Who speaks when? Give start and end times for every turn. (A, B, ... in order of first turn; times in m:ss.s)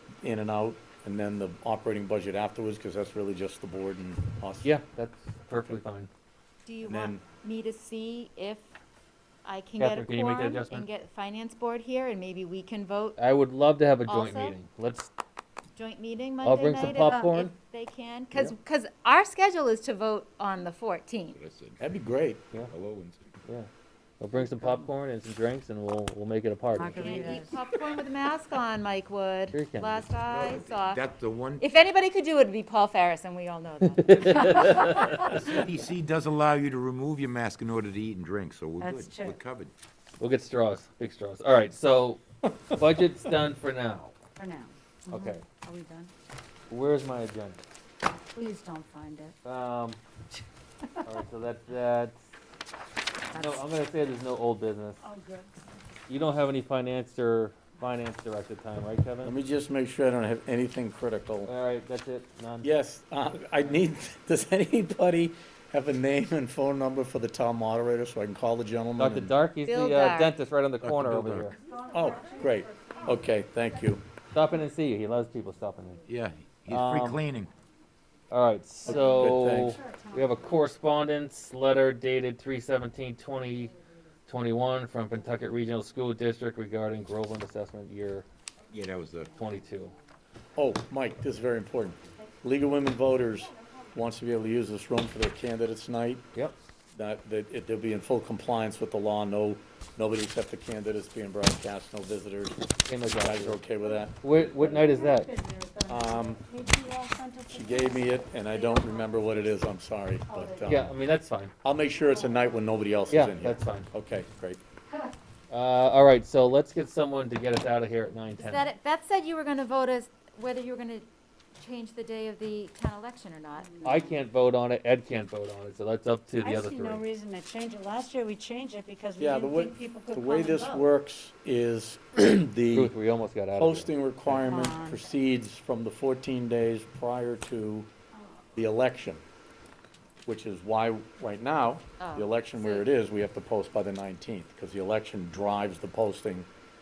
0:00.2-0:04.7 A
0:04.6-0:06.1 B
0:06.6-0:08.7 C
0:06.8-0:07.2 A
0:09.4-0:13.2 C
0:09.8-0:10.8 B
0:13.2-0:15.1 B
0:14.0-0:14.6 C
0:15.8-0:21.4 C
0:16.4-0:17.5 B
0:16.8-0:17.4 D
0:21.4-0:21.8 E
0:21.8-0:22.5 A
0:22.6-0:23.2 E
0:24.2-0:27.3 B
0:26.7-0:27.6 D
0:27.0-0:35.2 C
0:29.5-0:30.0 B
0:30.2-0:31.6 E
0:34.1-0:35.4 B
0:35.0-0:35.5 D
0:35.2-0:39.7 E
0:38.8-0:39.4 D
0:40.2-0:44.1 B
0:44.4-0:46.1 D
0:45.1-0:45.4 B
0:46.7-0:47.6 B
0:48.3-0:49.4 D
0:49.4-0:50.0 B
0:51.0-0:52.2 B
0:53.3-0:53.7 D
0:53.3-0:55.0 B
0:55.0-0:55.5 D
0:56.1-0:59.3 B
0:59.2-1:01.5 A
1:01.4-1:02.7 B
1:02.6-1:09.3 A
1:09.0-1:11.6 B
1:09.6-1:10.3 C
1:10.8-1:11.5 E
1:11.5-1:13.3 D
1:11.9-1:14.0 A
1:14.3-1:16.0 B
1:16.1-1:17.5 E
1:16.7-1:17.2 B
1:18.3-1:23.7 B
1:18.8-1:20.5 D
1:18.9-1:19.8 A
1:24.3-1:28.2 B
1:28.7-1:29.3 E
1:29.3-1:29.9 B
1:30.6-1:36.2 A
1:36.9-1:44.2 A
1:42.9-1:43.6 B
1:44.2-1:45.3 B
1:44.4-1:49.2 D
1:45.9-1:46.4 A
1:47.5-1:50.9 A
1:50.3-1:50.8 D
1:50.6-1:51.5 B
1:51.6-1:54.6 A
1:53.1-1:53.9 B
1:55.5-1:58.6 B
1:58.4-2:03.8 C
2:03.8-2:04.1 D
2:03.8-2:07.0 B
2:06.4-2:10.8 D
2:09.2-2:12.9 A
2:12.7-2:13.9 B
2:13.6-2:17.9 A
2:14.4-2:15.0 D
2:18.6-2:19.2 A
2:20.2-2:26.5 A
2:22.0-2:22.9 C